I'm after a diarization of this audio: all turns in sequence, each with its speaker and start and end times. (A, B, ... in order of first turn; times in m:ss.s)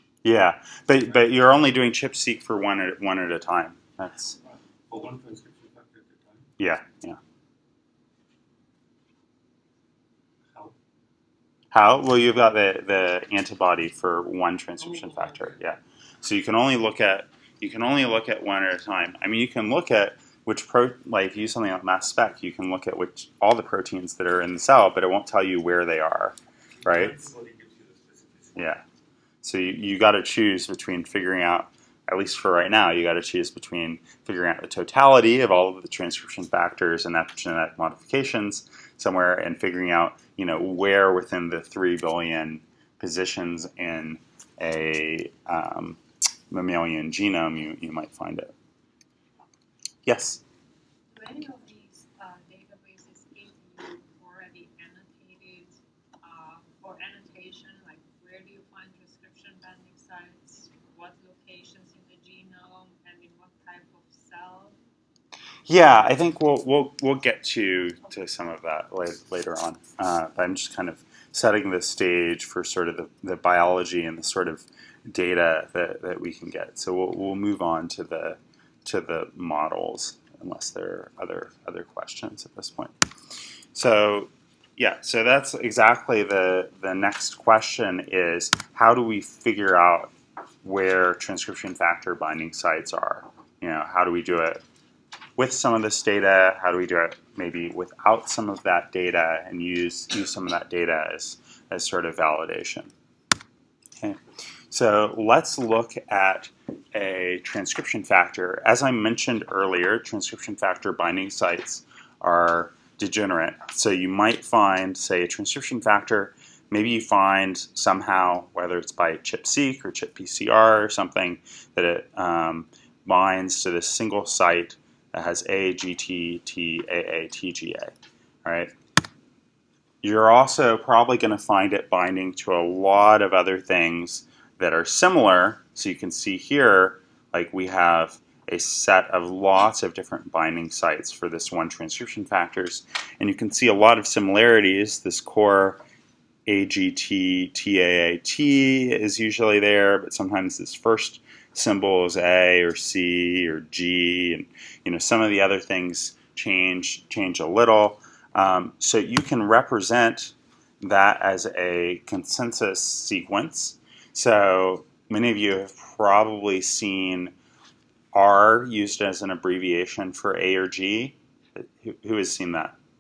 0:00.2-0:04.4 A
0:04.5-0:06.5 B
0:06.6-0:07.2 A
0:11.7-0:27.3 A
0:14.8-0:15.6 B
0:26.8-0:28.8 B
0:28.6-0:28.8 A
0:29.4-0:46.0 A
0:46.5-0:48.5 A
0:50.1-0:50.4 A
0:51.1-1:04.8 C
1:05.7-1:22.9 A
1:23.7-1:34.6 A
1:35.4-1:42.9 A
1:44.7-2:07.9 A
2:08.4-2:08.7 A
2:10.0-2:25.8 A
2:26.5-2:47.3 A
2:48.1-2:52.8 A